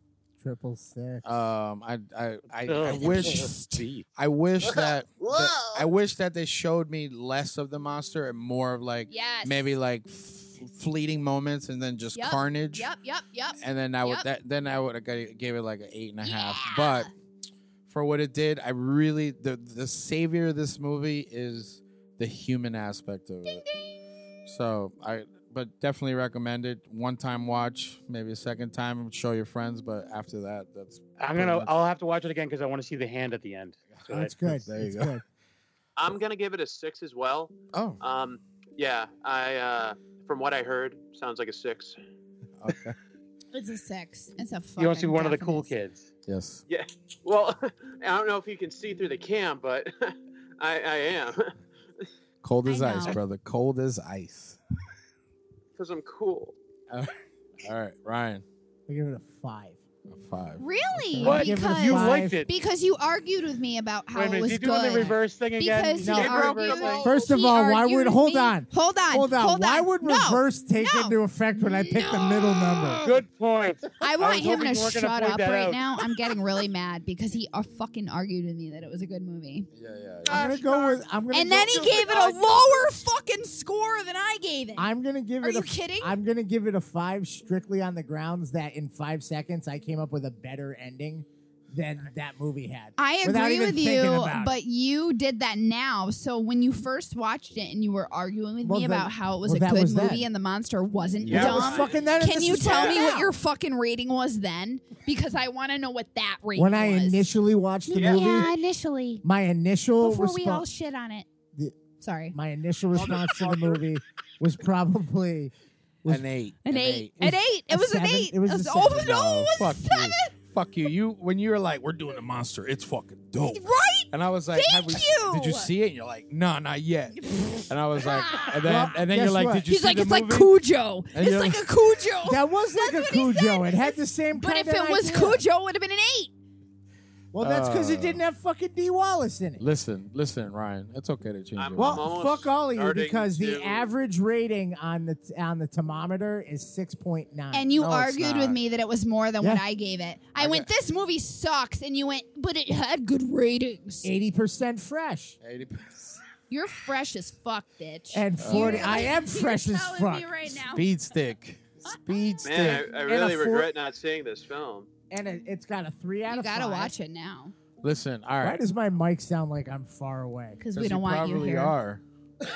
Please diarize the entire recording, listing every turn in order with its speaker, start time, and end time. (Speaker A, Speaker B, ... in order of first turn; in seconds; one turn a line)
Speaker A: 0.4-1.4
Speaker B: 1.2-12.9
Speaker C: 2.6-4.0
Speaker D: 4.6-5.8
Speaker E: 9.1-9.8
Speaker E: 12.1-14.3
Speaker B: 13.6-17.1
Speaker E: 16.2-17.1
Speaker B: 17.9-23.6
Speaker E: 23.4-24.0
Speaker B: 24.4-31.7
Speaker C: 31.2-34.3
Speaker B: 33.9-35.2
Speaker A: 34.1-35.2
Speaker D: 36.0-42.0
Speaker B: 37.7-38.0
Speaker B: 42.6-43.0
Speaker E: 43.5-45.7
Speaker C: 44.8-46.1
Speaker B: 46.2-46.6
Speaker D: 46.7-51.5
Speaker B: 52.4-54.6
Speaker E: 52.6-53.2
Speaker D: 55.8-56.5
Speaker B: 56.9-58.4
Speaker A: 58.9-59.8
Speaker B: 60.1-60.6
Speaker E: 60.6-73.0
Speaker A: 61.0-62.4
Speaker C: 61.2-62.5
Speaker C: 64.1-67.0
Speaker A: 66.0-73.0
Speaker D: 66.1-67.4
Speaker C: 73.0-75.8
Speaker E: 74.0-79.7
Speaker B: 79.7-80.5
Speaker D: 80.3-81.0
Speaker A: 80.3-82.5
Speaker E: 81.3-84.9
Speaker A: 84.8-94.6
Speaker E: 85.4-86.2
Speaker E: 93.0-107.3
Speaker A: 98.6-100.3
Speaker B: 101.2-101.5
Speaker D: 101.3-103.0
Speaker A: 101.3-103.3
Speaker A: 106.5-108.5
Speaker D: 107.9-108.5
Speaker E: 107.9-109.2
Speaker A: 109.2-110.7
Speaker E: 110.0-111.3
Speaker E: 112.0-112.3
Speaker A: 112.3-115.5
Speaker D: 113.0-113.8
Speaker B: 116.1-117.2
Speaker E: 116.6-120.3
Speaker A: 117.2-119.2
Speaker B: 119.0-130.5
Speaker E: 123.4-125.7
Speaker E: 127.1-128.6
Speaker A: 128.6-129.7
Speaker E: 129.7-136.3
Speaker B: 131.1-131.7
Speaker A: 132.2-135.4
Speaker A: 137.3-139.6
Speaker B: 137.4-138.2
Speaker B: 139.6-142.1
Speaker D: 141.6-143.9
Speaker A: 141.8-148.4
Speaker E: 147.5-154.1
Speaker B: 148.2-148.5
Speaker B: 150.4-150.7
Speaker A: 154.0-155.4
Speaker B: 155.4-156.2
Speaker E: 156.5-160.9
Speaker A: 158.1-160.5
Speaker B: 158.4-159.1
Speaker B: 160.7-163.0
Speaker D: 162.4-164.9
Speaker A: 162.8-163.7
Speaker A: 165.1-166.9
Speaker E: 166.3-167.5
Speaker B: 167.8-168.6
Speaker A: 168.4-170.6
Speaker E: 170.6-171.7
Speaker B: 170.7-172.0